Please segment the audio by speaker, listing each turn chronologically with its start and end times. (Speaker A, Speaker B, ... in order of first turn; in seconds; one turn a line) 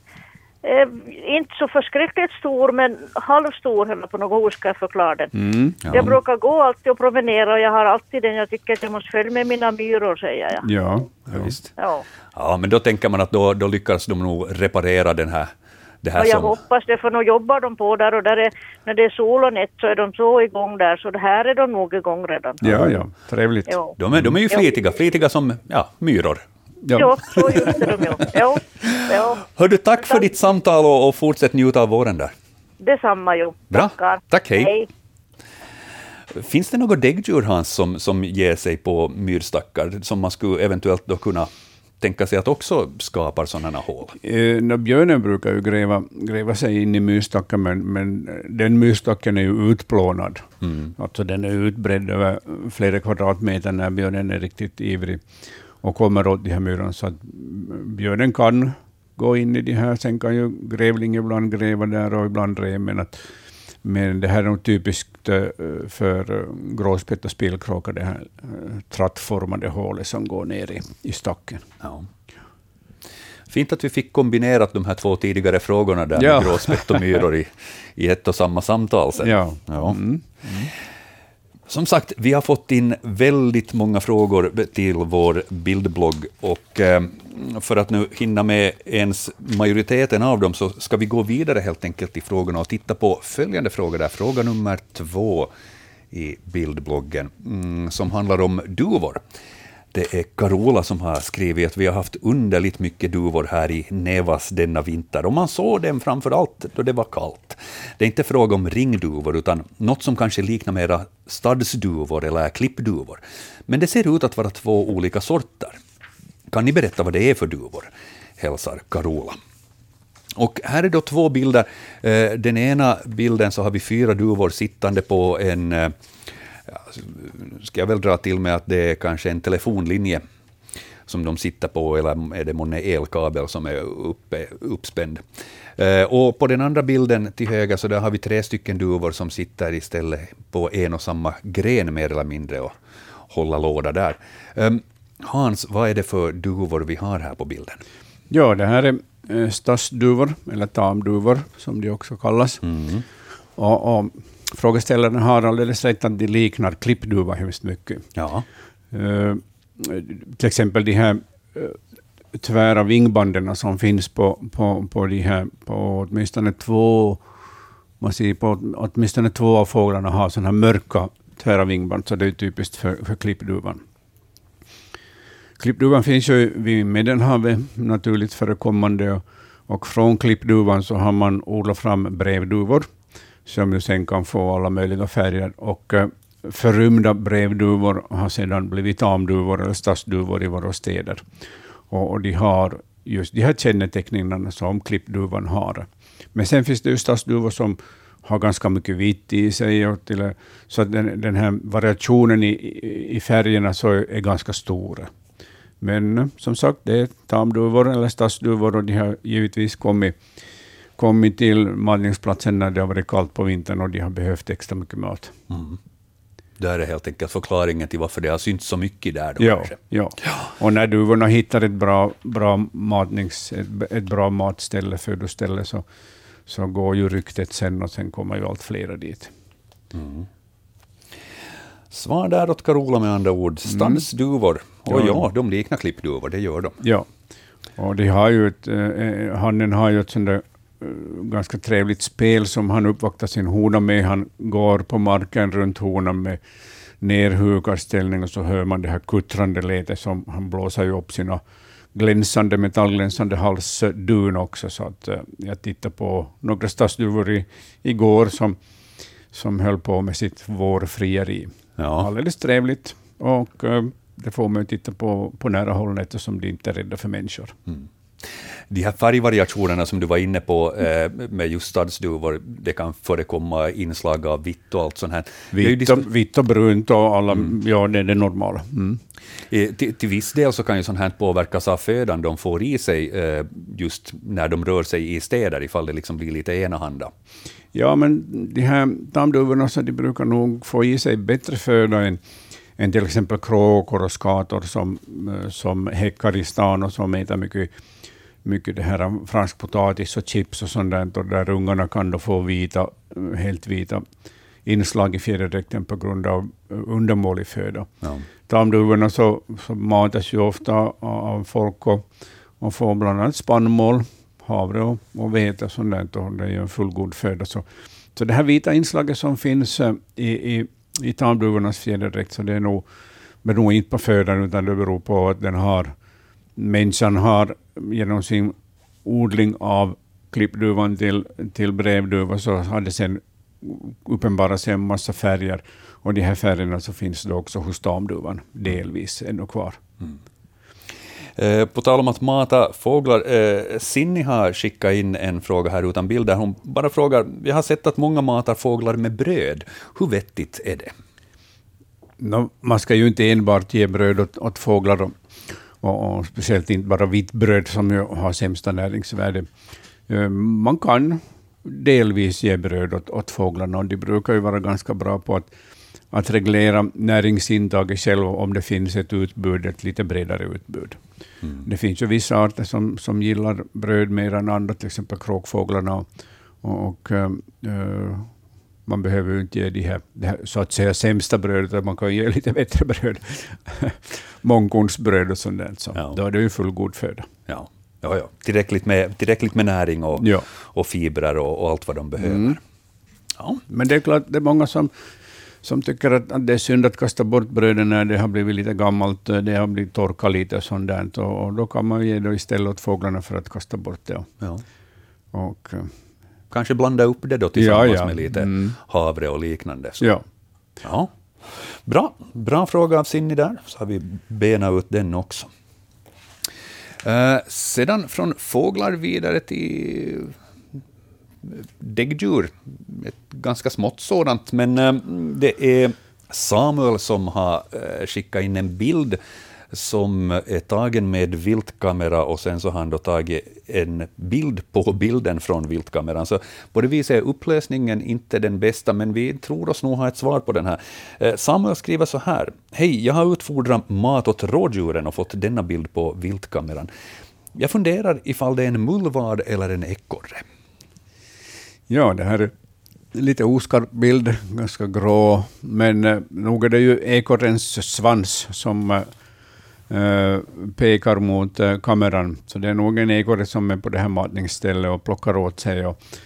Speaker A: 0.6-5.3
Speaker B: 5.3-6.1
Speaker C: 5.8-6.2
Speaker A: 5.9-10.7
Speaker B: 10.6-11.6
Speaker C: 11.3-11.7
Speaker A: 11.8-12.1
Speaker C: 12.3-16.6
Speaker A: 16.2-22.6
Speaker C: 22.6-23.0
Speaker B: 22.6-24.2
Speaker A: 23.7-24.0
Speaker C: 24.0-26.4
Speaker B: 26.8-27.7
Speaker A: 26.9-29.4
Speaker C: 28.0-32.3
Speaker A: 32.8-34.9
Speaker C: 33.7-34.8
Speaker C: 36.3-41.5
Speaker C: 42.0-44.2
Speaker B: 44.2-55.2
Speaker C: 50.6-50.9
Speaker B: 55.8-63.2
Speaker B: 63.8-71.6
Speaker C: 71.8-72.1
Speaker C: 73.5-80.0
Speaker B: 76.2-77.2
Speaker B: 79.2-80.7
Speaker C: 81.7-95.5
Speaker C: 96.1-99.2
Speaker C: 99.9-115.8
Speaker C: 116.5-119.4
Speaker C: 120.4-126.0
Speaker C: 126.7-130.2
Speaker C: 131.1-135.3
Speaker C: 135.8-142.8
Speaker C: 143.3-147.8
Speaker B: 148.3-152.6
Speaker C: 152.6-153.1
Speaker B: 153.6-158.1
Speaker C: 158.1-158.5
Speaker B: 158.9-161.8
Speaker B: 162.3-167.2
Speaker B: 168.0-173.8
Speaker B: 175.6-182.9
Speaker B: 183.5-191.2
Speaker B: 191.9-205.1
Speaker B: 205.8-210.2
Speaker B: 211.0-215.3
Speaker C: 215.5-215.8
Speaker C: 216.6-219.8
Speaker B: 219.4-225.8
Speaker B: 226.5-229.3
Speaker C: 229.9-230.3
Speaker C: 231.9-236.8
Speaker B: 233.7-234.0
Speaker B: 234.9-235.3
Speaker B: 237.8-246.4
Speaker B: 247.0-251.4
Speaker B: 251.9-258.6
Speaker B: 259.3-267.6
Speaker C: 261.8-262.1
Speaker C: 267.7-276.1
Speaker B: 275.5-279.0
Speaker C: 279.5-287.1
Speaker B: 287.7-292.2
Speaker B: 292.8-297.7
Speaker B: 298.4-304.0
Speaker B: 304.6-307.9
Speaker B: 308.5-312.1
Speaker B: 312.6-322.9
Speaker B: 323.4-325.9
Speaker B: 326.6-339.8
Speaker C: 341.4-350.9
Speaker B: 352.2-355.1
Speaker B: 355.8-359.5
Speaker B: 360.1-365.5
Speaker B: 366.1-371.0
Speaker B: 371.6-376.1
Speaker B: 376.6-378.3
Speaker B: 378.9-387.3
Speaker C: 387.5-392.6
Speaker B: 390.1-390.5
Speaker B: 392.2-392.6
Speaker B: 393.7-394.9
Speaker B: 395.6-404.3
Speaker B: 405.3-405.9
Speaker C: 406.5-410.1
Speaker B: 407.6-408.8
Speaker C: 410.8-415.5
Speaker C: 417.0-420.4
Speaker C: 421.4-429.2
Speaker C: 429.7-446.9
Speaker C: 447.6-450.4
Speaker B: 451.9-452.5
Speaker B: 453.1-459.1
Speaker B: 459.9-466.0